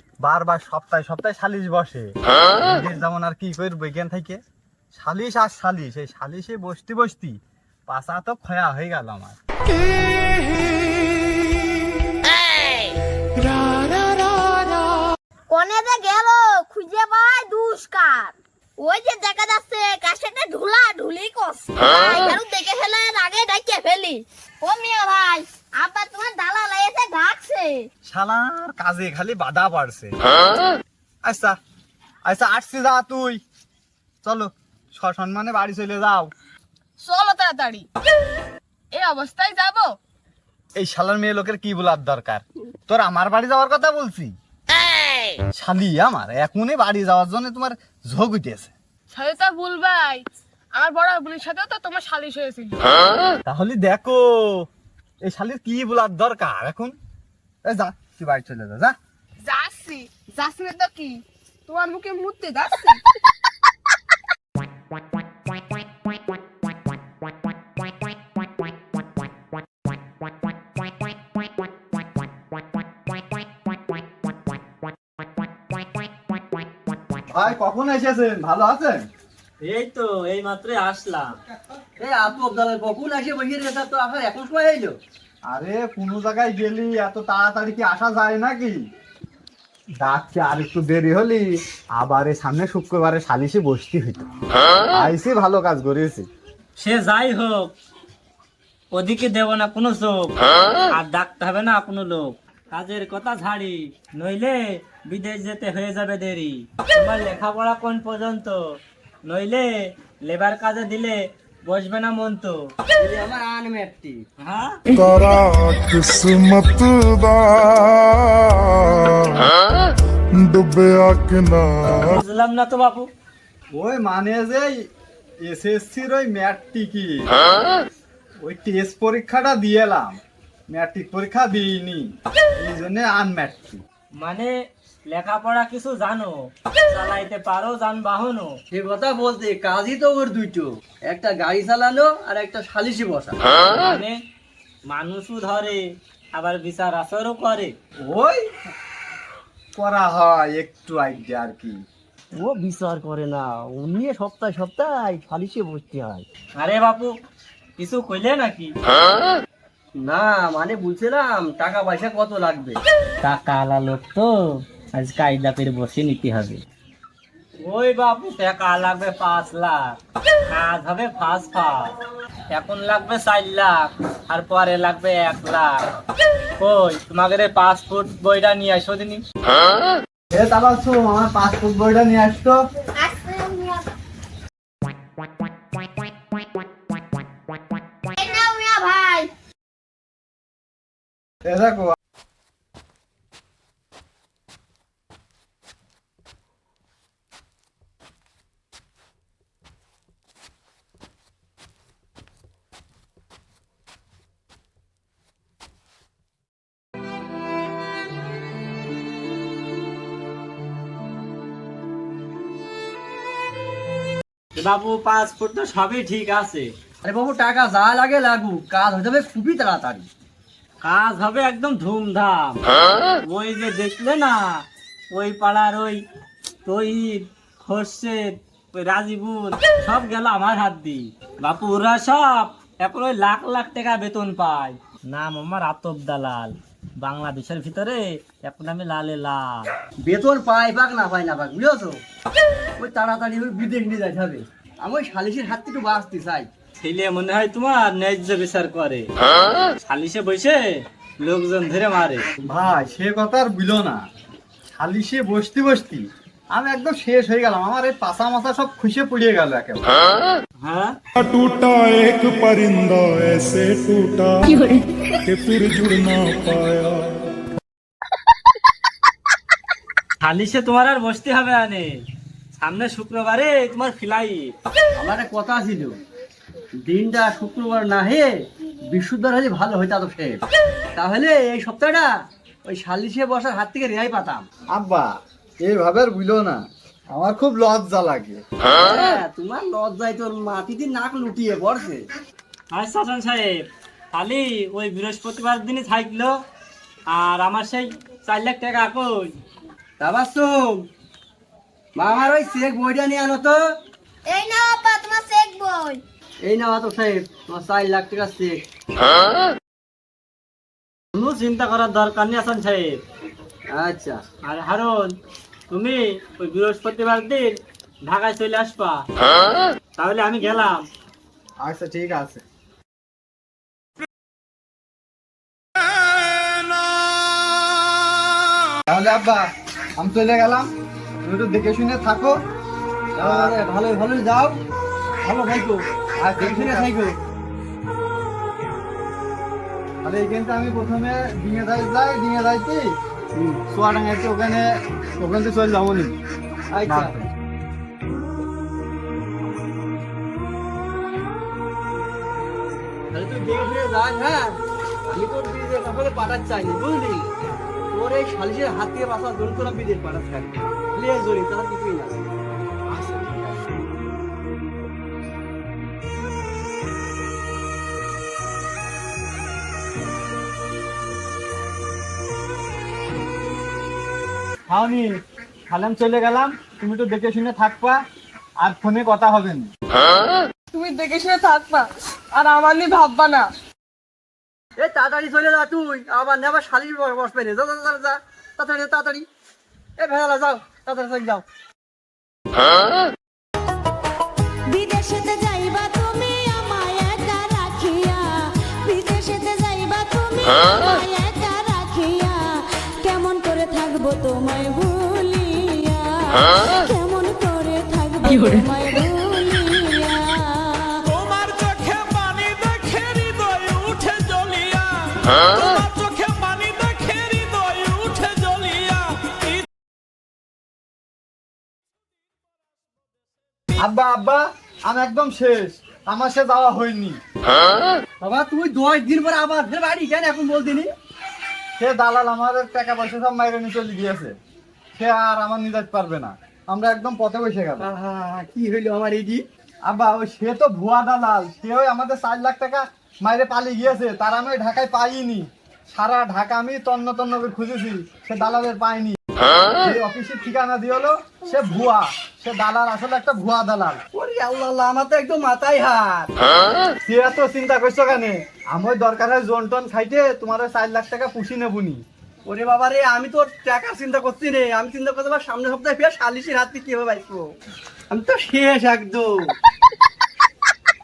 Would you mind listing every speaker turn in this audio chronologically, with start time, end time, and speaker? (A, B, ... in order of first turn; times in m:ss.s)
0:00.2-0:04.4 A
0:04.9-0:09.4 A
0:15.5-0:27.9 B
0:28.0-0:30.2 A
0:31.2-0:31.6 A
0:32.2-0:33.4 A
0:34.2-0:36.3 A
0:37.0-0:37.9 C
0:38.9-0:39.9 C
0:40.8-0:44.3 A
0:45.5-0:48.7 A
0:49.1-0:50.2 C
0:50.7-0:52.9 C
0:53.4-0:54.7 A
0:55.2-0:56.9 A
0:57.6-0:58.9 A
0:59.5-1:03.0 C
1:17.3-1:19.0 A
1:19.6-1:21.3 D
1:22.0-1:24.9 E
1:25.5-1:28.8 A
1:30.0-1:34.3 A
1:34.9-1:36.2 A
1:36.8-1:37.7 D
1:38.9-1:40.4 D
1:40.9-1:48.6 D
1:49.3-1:49.7 D
1:50.2-1:52.6 D
1:53.0-1:54.2 E
1:54.4-1:54.8 D
1:54.9-1:59.5 F
2:00.3-2:02.1 F
2:02.0-2:03.1 D
2:03.7-2:04.7 A
2:05.4-2:07.3 A
2:08.4-2:10.2 A
2:10.7-2:12.1 A
2:12.6-2:13.8 A
2:14.2-2:14.5 D
2:15.1-2:18.5 D
2:18.7-2:23.4 E
2:23.8-2:24.2 D
2:24.9-2:25.8 D
2:26.3-2:27.7 D
2:28.0-2:28.4 A
2:29.8-2:31.8 A
2:32.4-2:36.2 E
2:36.6-2:37.1 D
2:37.8-2:38.7 D
2:40.0-2:42.8 E
2:43.2-2:44.3 D
2:44.9-2:46.6 D
2:47.6-2:50.0 D
2:50.5-2:51.9 D
2:52.5-2:55.8 D
2:56.6-2:59.2 D
3:00.3-3:02.6 A
3:02.9-3:03.9 B
3:08.1-3:09.3 B
3:11.4-3:11.9 A
3:34.6-3:36.7 D
3:37.0-3:40.1 E
3:40.8-3:42.7 D
3:43.2-3:44.5 D
3:45.1-3:46.0 D
3:46.6-3:59.7 D
4:00.0-4:02.0 E
4:02.8-4:06.5 E
4:06.8-4:09.1 D
4:09.8-4:10.7 D
4:11.2-4:12.2 D
4:12.5-4:14.0 A
4:14.7-4:19.9 A
4:20.6-4:21.0 D
4:21.2-4:27.2 F
4:30.2-4:31.9 D
4:32.6-4:34.5 D
4:35.0-4:36.0 E
4:36.8-4:38.3 E
4:38.9-4:40.4 E
4:41.0-4:42.1 E
4:42.6-4:44.5 E
4:44.7-4:45.1 A
4:45.6-4:48.4 A
4:48.7-4:52.0 E
4:52.7-4:56.3 D
4:57.1-4:59.3 D
5:00.0-5:00.8 E
5:02.0-5:03.6 E
5:04.3-5:06.0 B
5:06.4-5:08.6 E
5:11.2-5:13.0 D
5:13.7-5:14.2 E
5:14.4-5:15.1 D
5:15.7-5:19.0 D
5:20.0-5:20.8 D
5:21.6-5:22.4 A
5:28.9-5:30.7 A
5:31.2-5:32.3 A
5:33.2-5:34.6 E
5:33.2-5:33.5 A
5:35.2-5:35.8 E
5:36.2-5:36.9 A
5:36.4-5:37.1 E
5:40.0-5:42.9 A
5:43.3-5:43.6 E
5:43.7-5:46.2 A
5:46.7-5:47.3 E
5:46.9-5:47.2 A
5:53.1-5:54.6 E
5:55.1-5:57.2 E
5:57.9-6:02.3 E
6:02.9-6:03.6 E
6:14.7-6:15.1 A
6:15.7-6:18.0 A
6:18.6-6:19.7 A
6:20.7-6:23.5 C
6:24.8-6:29.2 E
6:30.0-6:31.4 E
6:34.7-6:51.0 G
6:51.1-6:59.6 H
7:03.8-7:07.2 A
7:08.2-7:10.9 E
7:11.8-7:14.3 A
7:15.0-7:17.9 A
7:17.8-7:19.4 E
7:19.9-7:29.2 A
7:29.8-7:34.0 A
7:34.1-7:36.3 E
7:37.0-7:42.0 A
7:42.5-7:47.4 E
7:48.1-7:49.3 E